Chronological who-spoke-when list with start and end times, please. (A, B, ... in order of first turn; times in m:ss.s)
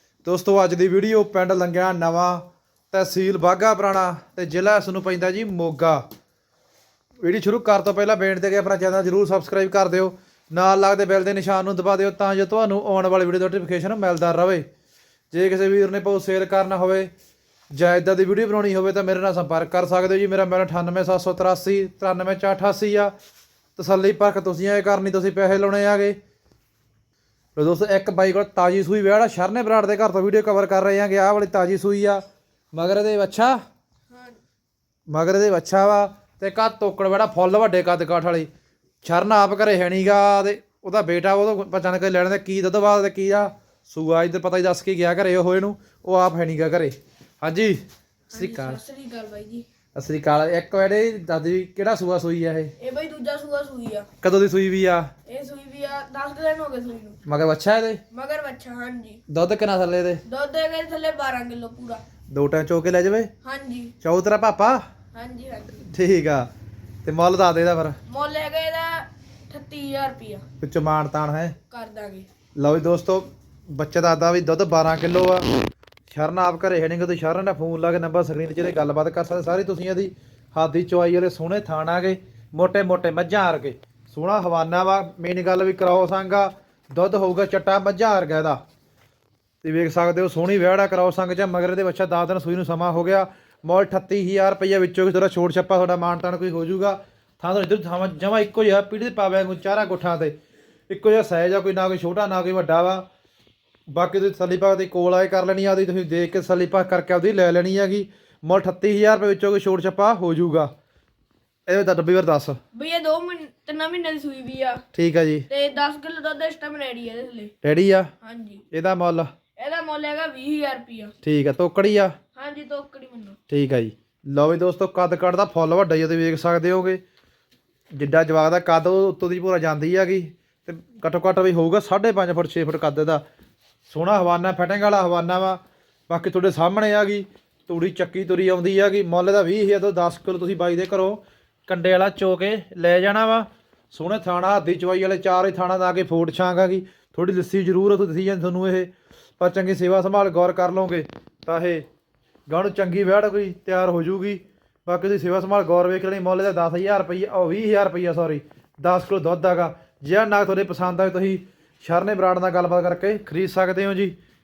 0:00.2-0:06.0 A
0:07.2-0:14.7 A
0:15.3-0:17.1 A
0:17.7-0:23.1 A
0:23.8-0:26.2 A
0:27.6-0:33.6 A
0:34.1-0:34.4 B
0:35.1-0:38.5 A
0:39.0-0:47.8 A
0:48.3-0:49.7 B
0:48.3-0:48.8 A
0:50.0-0:52.7 A
0:52.8-0:54.1 B
0:54.2-0:55.1 A
0:55.3-0:57.2 B
0:57.3-0:58.0 A
0:58.1-0:59.2 B
0:59.3-1:00.2 A
1:00.3-1:02.0 B
1:02.3-1:03.3 A
1:03.4-1:04.0 B
1:04.0-1:04.8 A
1:05.1-1:05.8 B
1:05.8-1:06.5 A
1:07.0-1:08.0 A
1:08.1-1:10.4 B
1:10.6-1:11.6 A
1:11.7-1:12.3 B
1:12.6-1:15.5 A
1:16.1-1:28.6 A
1:29.6-1:40.4 A
1:40.9-1:43.1 A
1:43.9-1:50.7 A
1:51.7-1:52.6 A
1:52.7-1:54.8 B
1:54.9-1:55.5 A
1:55.5-1:57.5 B
1:57.6-1:58.1 A
1:58.2-1:58.6 B
1:58.7-1:59.3 A
1:59.6-2:01.2 B
2:01.2-2:02.1 A
2:02.4-2:03.4 B
2:03.5-2:07.0 A
2:07.9-2:13.2 A
2:13.9-2:31.8 A
2:32.5-2:44.2 A